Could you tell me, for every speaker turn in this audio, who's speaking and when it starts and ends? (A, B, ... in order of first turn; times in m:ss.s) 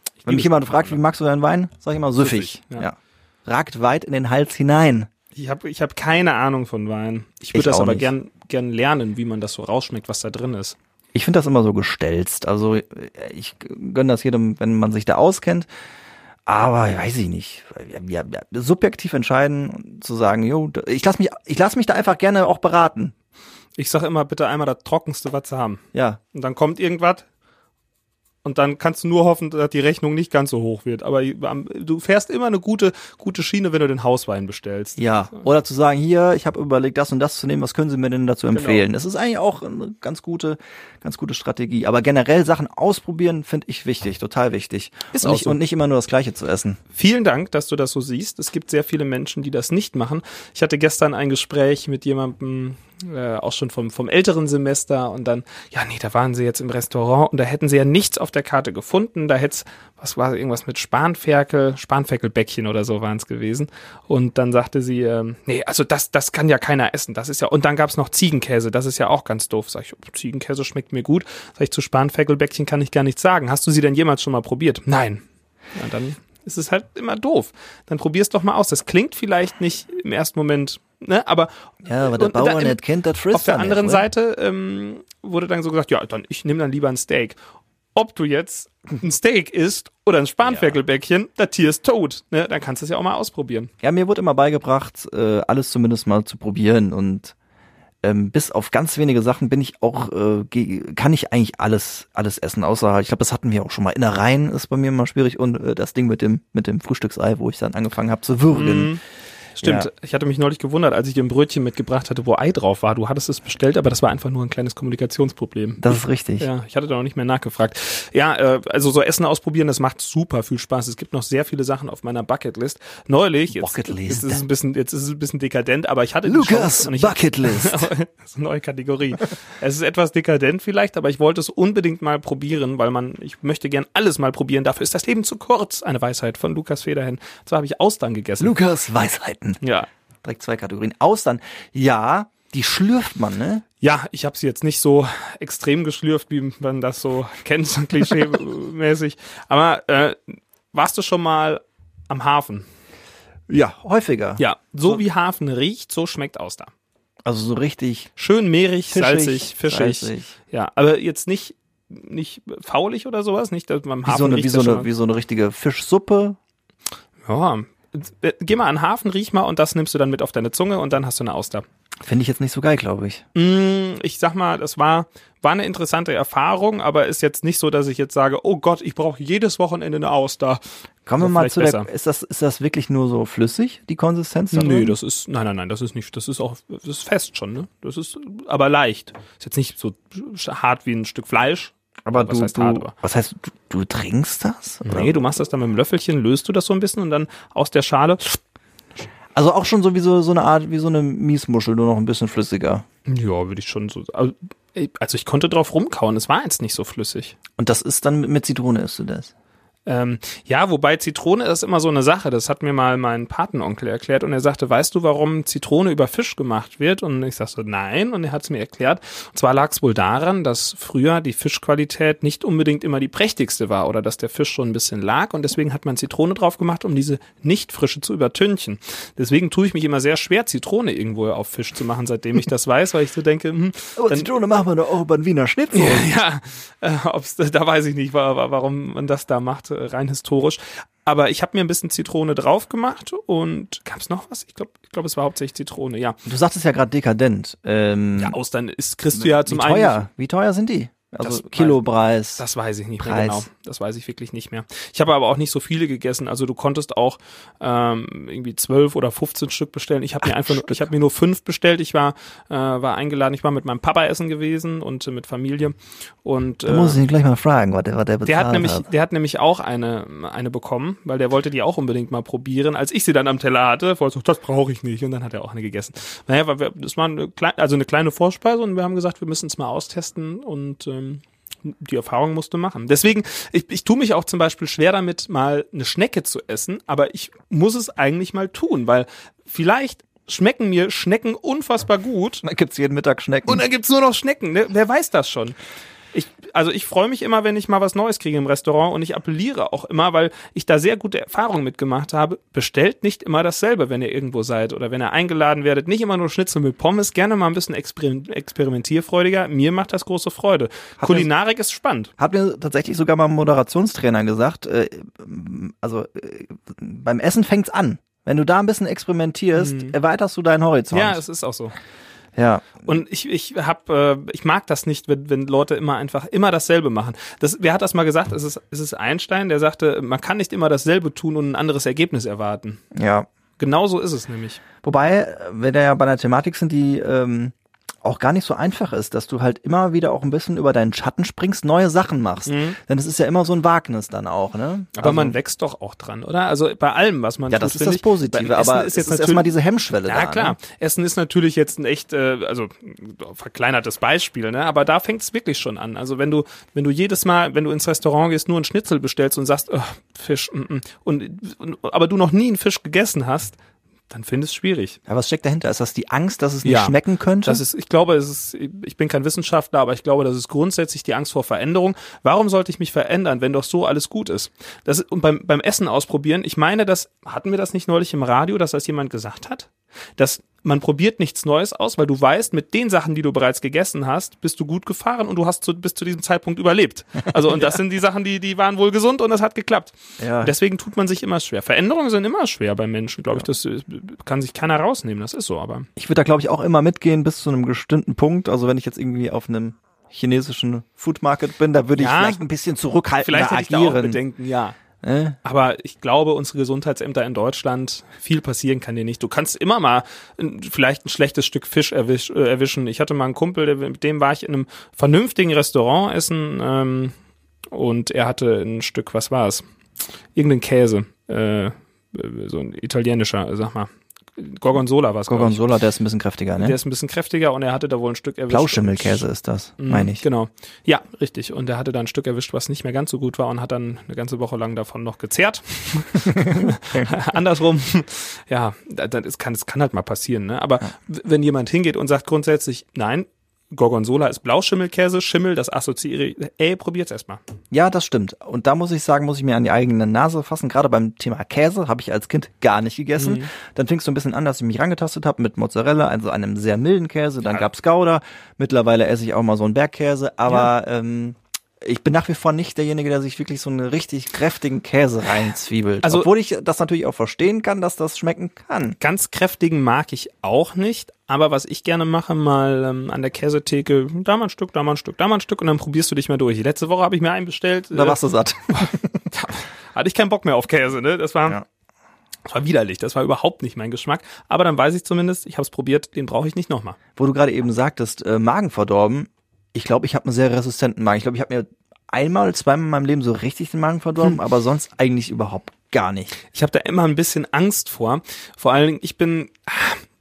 0:00.2-0:01.0 A
0:00.2-0:05.1 B
0:02.2-0:02.9 A
0:05.3-0:10.8 A
0:07.5-0:08.1 B
0:11.1-0:15.7 B
0:16.5-0:23.1 B
0:23.8-0:25.8 A
0:25.9-0:26.2 B
0:26.3-0:27.2 A
0:28.4-0:35.0 A
0:35.0-0:46.8 B
0:38.5-0:38.8 A
0:45.1-0:45.6 A
0:46.9-1:15.2 A
1:15.7-1:22.8 A
1:21.8-1:24.1 B
1:23.3-1:27.4 A
1:27.9-1:33.7 A
1:30.4-1:30.8 B
1:33.8-1:37.3 B
1:38.0-1:49.0 B
1:48.5-1:49.0 A
1:49.6-2:18.6 A
1:49.6-1:49.9 B
1:55.8-1:56.5 B
2:03.5-2:04.4 B
2:06.2-2:07.9 B
2:18.4-2:19.6 B
2:19.6-2:19.9 A
2:20.2-2:23.6 B
2:23.8-2:32.6 A
2:33.5-2:35.0 B
2:34.4-2:36.7 A
2:37.2-2:38.1 B
2:38.2-2:44.9 A
2:38.9-2:40.3 B
2:44.0-2:46.4 B
2:47.2-2:51.6 A
2:52.0-2:53.2 B
2:53.3-3:00.6 A
3:01.0-3:05.0 B
3:01.2-3:01.9 A
3:04.5-3:12.9 A
3:12.0-3:15.2 B
3:14.8-3:18.4 A
3:19.3-3:22.8 B
3:23.1-3:27.4 A
3:27.6-3:29.3 B
3:29.8-3:54.3 A
3:54.0-3:56.2 B
3:55.7-4:06.2 A
4:06.2-4:08.4 B
4:08.2-4:10.0 A
4:09.1-4:12.4 B
4:11.2-4:11.8 A
4:12.4-4:27.0 A
4:13.0-4:13.4 B
4:20.2-4:20.9 B
4:26.6-4:28.8 B
4:28.2-4:52.4 A
4:52.4-4:53.6 B
4:53.5-4:55.6 A
4:56.1-5:12.1 A
5:11.0-5:11.3 B
5:12.2-5:21.2 B
5:19.6-5:20.0 A
5:20.9-5:21.7 A
5:22.4-5:23.0 B
5:22.8-5:32.8 A
5:32.9-5:33.3 B
5:33.6-5:34.6 A
5:34.8-5:45.4 B
5:42.4-5:42.8 A
5:45.0-5:49.5 A
5:47.5-5:50.6 B
5:50.0-6:03.6 A
6:04.1-6:05.0 A
6:05.1-6:07.6 B
6:06.6-6:35.9 A
6:30.2-6:30.5 B
6:36.0-6:44.2 B
6:42.0-6:42.4 A
6:43.2-6:44.8 A
6:45.0-6:45.4 B
6:45.4-6:57.1 A
6:57.7-6:59.6 A
7:00.3-7:05.6 A
7:05.3-7:06.8 B
7:06.6-7:09.2 A
7:08.5-7:10.2 B
7:09.8-7:27.4 A
7:27.7-7:49.0 B
7:33.2-7:33.5 A
7:46.0-7:46.3 A
7:49.0-7:58.2 A
7:57.9-7:59.3 B
7:58.7-8:01.6 A
8:02.5-8:07.0 A
8:07.2-8:16.4 B
8:16.5-8:20.0 A